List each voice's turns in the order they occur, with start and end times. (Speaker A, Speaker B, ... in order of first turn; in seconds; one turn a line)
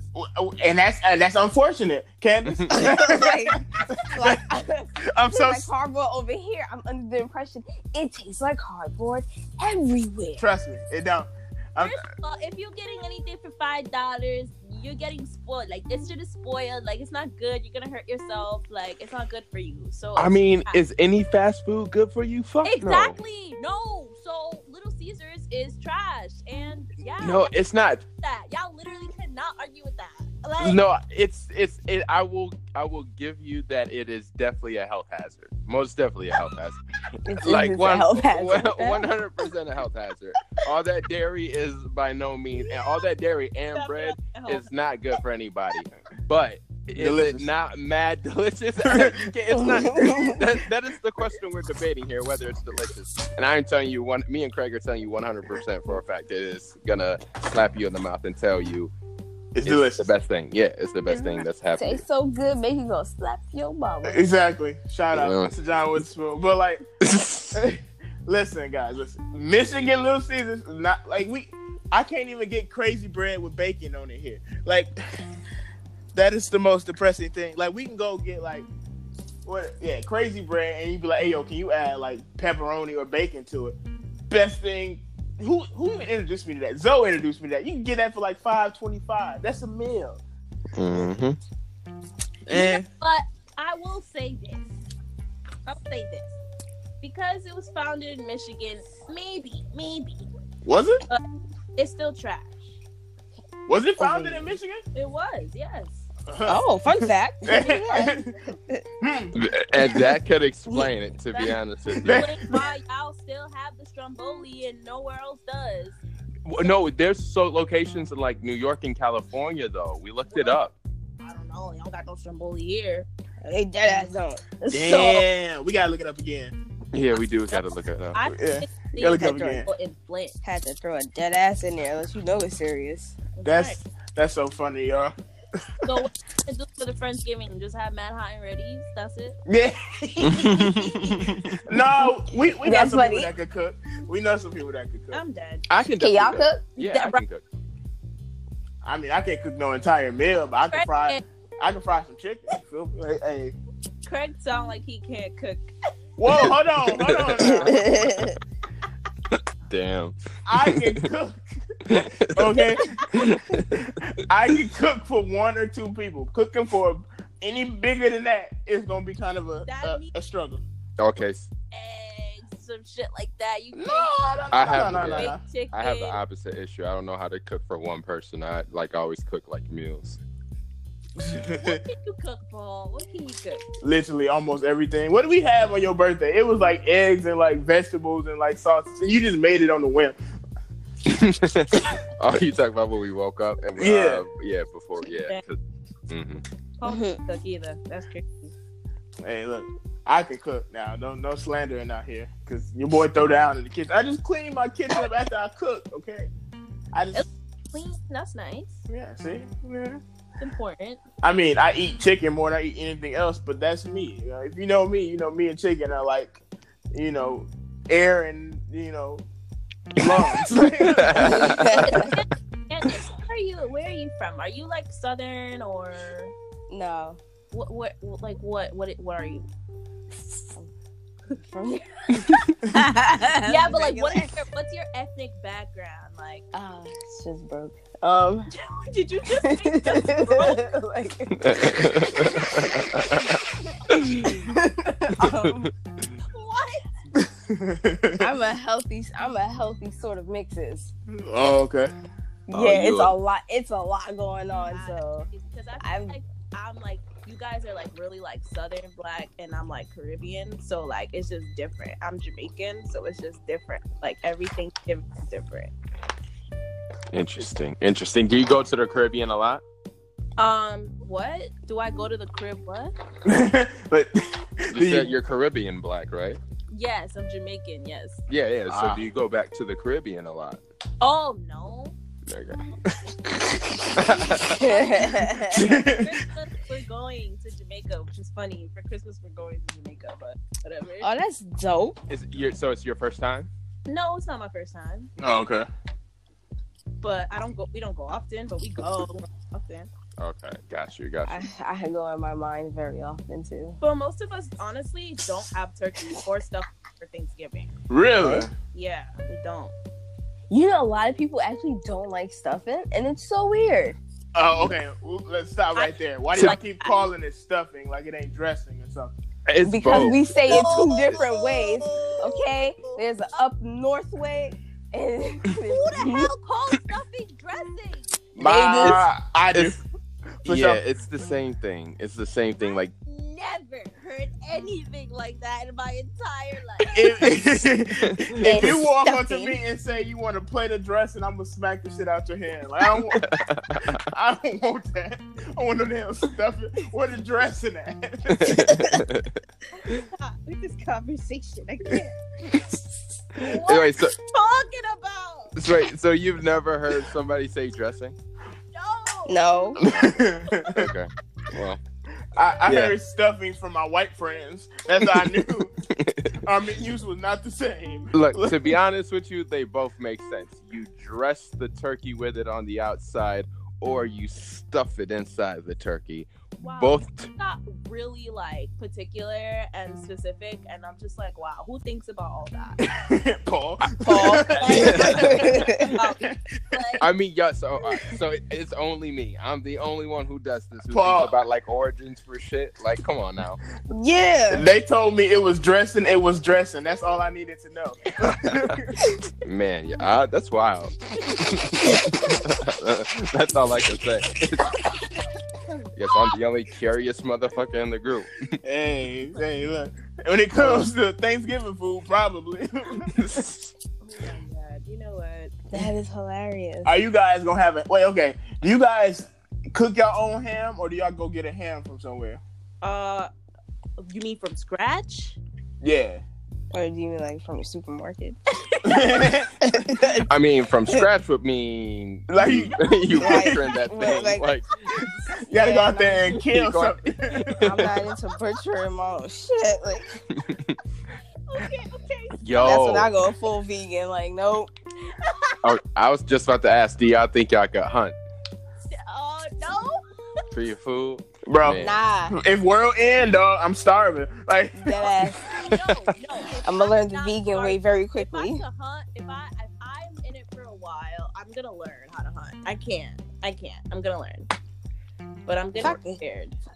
Speaker A: 0.1-4.4
Speaker B: 2.7-10.4
Speaker A: 5.0-5.7
Speaker A: 10.4-12.0
Speaker C: 11.8-20.8
Speaker D: 20.1-23.1
Speaker C: 22.6-27.6
Speaker D: 27.2-28.0
Speaker C: 28.2-30.8
Speaker D: 30.6-36.8
Speaker B: 37.2-39.1
Speaker D: 37.3-58.9
Speaker C: 43.7-44.7
Speaker A: 47.0-47.5
Speaker A: 48.8-49.2
Speaker B: 49.5-50.4
Speaker A: 59.5-60.1
Speaker D: 59.6-62.0
Speaker B: 61.7-64.2
Speaker A: 64.0-66.8
Speaker D: 65.1-65.5
Speaker D: 67.0-67.6
Speaker A: 67.5-74.9
Speaker A: 76.1-78.7
Speaker A: 79.5-83.8
Speaker A: 84.3-90.2
Speaker D: 90.8-91.4
Speaker A: 92.5-92.8
Speaker C: 92.5-94.7
Speaker C: 95.7-96.4
Speaker C: 97.0-100.2
Speaker A: 100.6-101.0
Speaker C: 101.8-102.7
Speaker A: 103.7-104.8
Speaker B: 104.0-104.5
Speaker C: 104.9-106.0
Speaker A: 106.3-106.6
Speaker B: 106.5-108.8
Speaker A: 107.4-108.3
Speaker A: 109.0-109.3
Speaker D: 109.3-112.3
Speaker A: 112.0-112.6
Speaker C: 112.0-116.0
Speaker D: 116.4-120.7
Speaker C: 120.3-120.6
Speaker C: 121.2-123.1
Speaker B: 123.4-125.2
Speaker A: 124.7-126.5
Speaker D: 126.9-128.2
Speaker C: 127.5-130.3
Speaker A: 128.2-129.7
Speaker B: 130.4-133.2
Speaker C: 133.3-133.8
Speaker A: 133.4-135.1
Speaker C: 135.8-139.4
Speaker A: 139.5-145.2
Speaker D: 140.2-141.6
Speaker B: 142.0-143.3
Speaker C: 145.1-145.7
Speaker D: 145.7-147.4
Speaker B: 146.0-146.6
Speaker C: 146.8-147.2
Speaker A: 148.8-153.5
Speaker C: 150.7-151.2
Speaker C: 154.0-155.7
Speaker A: 156.2-158.0
Speaker D: 156.3-157.7
Speaker B: 157.4-158.4
Speaker D: 159.3-161.0
Speaker A: 160.4-170.6
Speaker D: 161.9-163.9
Speaker C: 169.6-170.1
Speaker D: 171.0-171.5
Speaker C: 171.7-176.2
Speaker A: 173.7-175.4
Speaker D: 174.5-180.2
Speaker A: 181.2-181.8
Speaker C: 181.5-183.6
Speaker A: 183.8-190.2
Speaker D: 191.0-195.6
Speaker A: 193.8-194.2
Speaker D: 196.1-196.4
Speaker C: 196.8-198.5
Speaker B: 196.8-197.2
Speaker A: 199.2-206.3
Speaker A: 206.9-207.2
Speaker C: 207.1-208.8
Speaker A: 208.9-210.0
Speaker C: 210.4-211.0
Speaker A: 211.2-216.4
Speaker A: 216.9-219.2
Speaker A: 219.9-221.7
Speaker D: 220.9-221.8
Speaker B: 221.1-222.1
Speaker C: 221.8-226.3
Speaker B: 226.7-227.2
Speaker C: 227.5-229.4
Speaker B: 231.4-234.4
Speaker C: 233.4-236.4
Speaker B: 236.5-238.5
Speaker C: 238.5-240.7
Speaker B: 239.4-242.8
Speaker D: 241.4-244.3
Speaker B: 244.0-245.7
Speaker D: 245.2-245.7
Speaker C: 246.3-246.8
Speaker A: 247.2-248.3
Speaker B: 248.2-250.9
Speaker A: 251.1-251.9
Speaker B: 252.5-255.3
Speaker D: 252.5-253.1
Speaker C: 254.6-265.7
Speaker B: 255.8-256.2
Speaker D: 267.1-269.6
Speaker C: 270.4-272.9
Speaker A: 273.2-275.1
Speaker D: 274.7-276.4
Speaker C: 276.7-278.2
Speaker D: 278.3-280.6
Speaker A: 278.7-279.0
Speaker C: 281.0-281.9
Speaker D: 282.3-284.7
Speaker C: 284.6-291.1
Speaker B: 284.6-285.7
Speaker A: 285.5-286.1
Speaker B: 291.0-292.0
Speaker D: 292.1-293.5
Speaker C: 293.9-295.1
Speaker A: 295.2-295.7
Speaker C: 297.0-299.9
Speaker D: 300.2-301.4
Speaker B: 301.2-303.8
Speaker C: 303.8-307.7
Speaker A: 307.9-308.5
Speaker B: 308.2-308.5
Speaker C: 308.7-309.7
Speaker B: 310.5-314.0
Speaker A: 314.3-319.1
Speaker C: 315.7-317.1
Speaker D: 319.5-320.8
Speaker B: 319.6-326.3
Speaker C: 320.4-323.0
Speaker C: 325.6-328.1
Speaker D: 328.4-329.8
Speaker B: 328.4-329.0
Speaker A: 328.4-329.8
Speaker A: 330.4-330.8
Speaker D: 330.4-332.9
Speaker C: 332.7-337.1
Speaker A: 336.9-348.7
Speaker D: 338.1-338.8
Speaker B: 338.4-339.6
Speaker D: 343.1-344.0
Speaker D: 348.3-350.0
Speaker C: 349.8-352.1
Speaker C: 353.4-355.6
Speaker D: 353.4-354.1
Speaker D: 355.6-358.1
Speaker C: 358.7-359.8
Speaker B: 359.3-359.8
Speaker A: 359.8-360.9
Speaker D: 359.8-361.8
Speaker A: 362.3-365.7
Speaker D: 362.6-362.9
Speaker D: 365.9-366.3
Speaker A: 366.4-368.7
Speaker D: 368.1-377.3
Speaker C: 376.6-382.8
Speaker A: 382.8-386.8
Speaker D: 383.8-385.6
Speaker B: 384.0-386.0
Speaker C: 384.5-387.1
Speaker D: 387.0-393.6
Speaker A: 390.9-391.3
Speaker B: 393.9-394.7
Speaker A: 394.5-399.1
Speaker D: 398.5-398.7
Speaker D: 399.4-404.8
Speaker D: 405.9-408.5
Speaker A: 408.6-413.5
Speaker D: 413.2-413.6
Speaker C: 414.0-415.6
Speaker B: 415.7-416.9
Speaker A: 416.8-422.4
Speaker C: 422.8-423.3
Speaker C: 424.0-425.4
Speaker A: 425.8-426.2
Speaker B: 426.7-430.3
Speaker A: 428.8-430.1
Speaker D: 430.3-435.1
Speaker A: 432.3-433.7
Speaker B: 433.1-434.5
Speaker A: 435.4-437.8
Speaker B: 435.5-436.4
Speaker D: 436.4-438.0
Speaker B: 437.6-440.2
Speaker D: 440.3-440.8
Speaker C: 441.5-442.8
Speaker D: 442.4-443.1
Speaker B: 442.5-444.7
Speaker D: 445.6-448.1
Speaker C: 448.9-450.4
Speaker D: 450.5-452.0
Speaker A: 451.4-455.9
Speaker B: 451.8-452.3
Speaker B: 454.8-455.5
Speaker C: 455.5-464.5
Speaker B: 456.6-458.6
Speaker C: 465.4-466.6
Speaker B: 465.8-466.2